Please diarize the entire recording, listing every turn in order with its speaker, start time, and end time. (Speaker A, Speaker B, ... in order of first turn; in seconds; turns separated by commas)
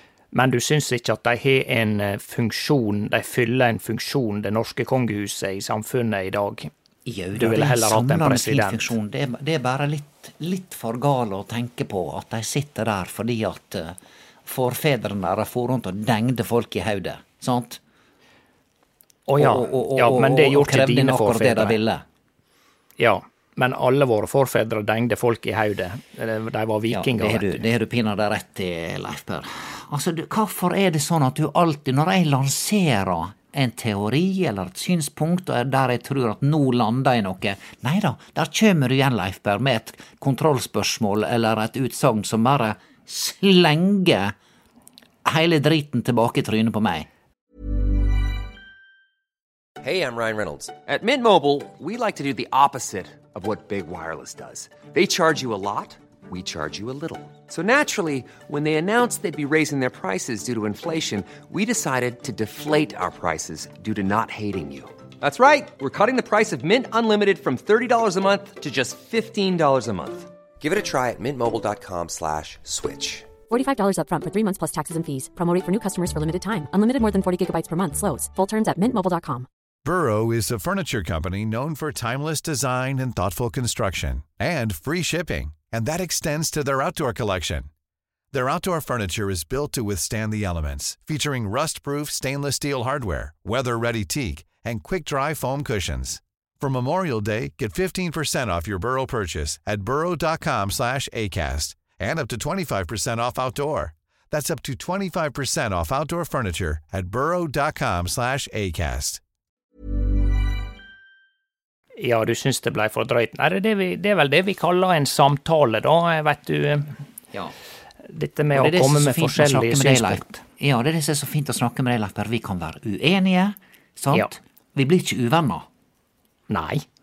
Speaker A: 0.3-6.7, Speaker B: 7.0-17.8, Speaker A: 7.3-8.9, Speaker A: 19.3-21.8, Speaker B: 19.4-22.0, Speaker A: 23.0-27.6, Speaker B: 26.9-44.4, Speaker B: 45.2-47.1, Speaker C: 49.8-73.4, Speaker D: 73.5-79.5, Speaker E: 79.8-87.7, Speaker E: 88.3-109.2, Speaker A: 112.0-116.9, Speaker A: 118.1-120.4, Speaker B: 118.5-125.7, Speaker A: 126.5-126.8